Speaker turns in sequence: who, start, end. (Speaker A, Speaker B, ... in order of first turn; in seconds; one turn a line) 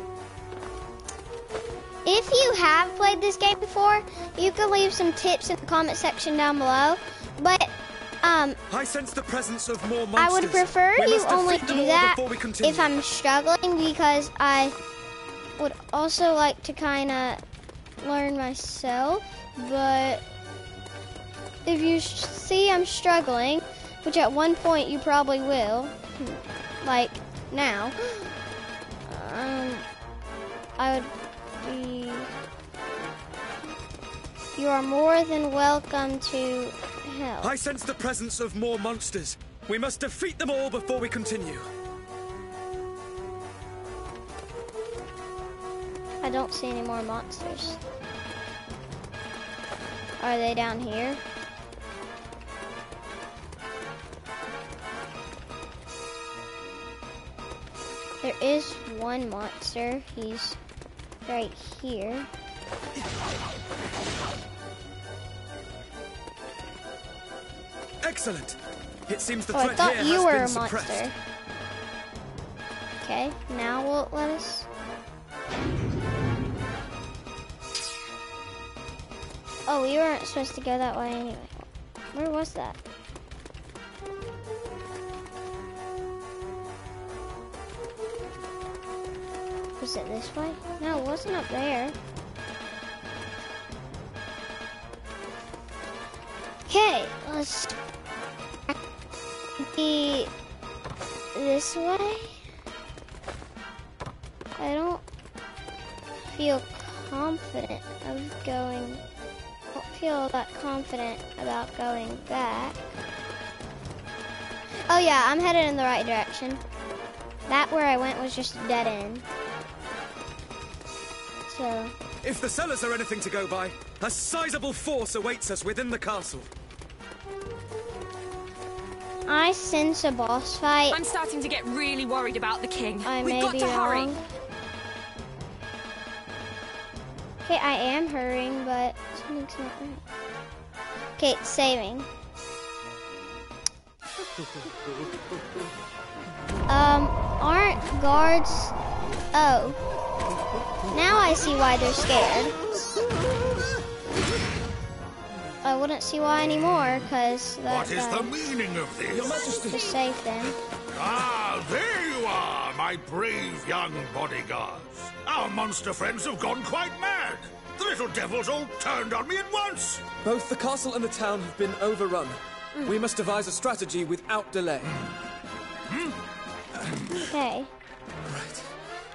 Speaker A: 2.0-8.6
Speaker B: 8.7-12.9
Speaker A: 10.2-14.7
Speaker A: 15.6-17.4
Speaker A: 18.0-20.2
Speaker A: 21.6-28.3
Speaker A: 29.1-29.8
Speaker A: 30.8-32.3
Speaker A: 34.5-37.5
Speaker B: 37.4-41.7
Speaker A: 46.2-47.8
Speaker A: 50.2-51.2
Speaker A: 58.2-60.6
Speaker A: 61.3-62.3
Speaker B: 68.0-71.1
Speaker A: 69.5-71.1
Speaker A: 73.0-74.7
Speaker A: 79.7-82.8
Speaker A: 89.8-91.9
Speaker A: 96.7-97.7
Speaker A: 99.6-100.3
Speaker A: 101.3-102.3
Speaker A: 104.6-105.0
Speaker A: 106.2-109.0
Speaker A: 109.7-112.8
Speaker A: 114.9-116.6
Speaker A: 117.5-119.2
Speaker A: 121.5-121.9
Speaker B: 122.2-126.5
Speaker A: 129.3-131.0
Speaker C: 130.9-134.2
Speaker A: 133.0-134.2
Speaker A: 137.4-140.0
Speaker A: 141.2-142.1
Speaker A: 146.7-148.7
Speaker A: 149.3-149.8
Speaker A: 150.9-152.6
Speaker A: 155.6-158.3
Speaker D: 157.7-159.6
Speaker B: 159.1-160.0
Speaker A: 159.7-160.6
Speaker D: 160.9-170.1
Speaker B: 170.2-174.9
Speaker A: 177.1-177.7
Speaker B: 178.2-178.7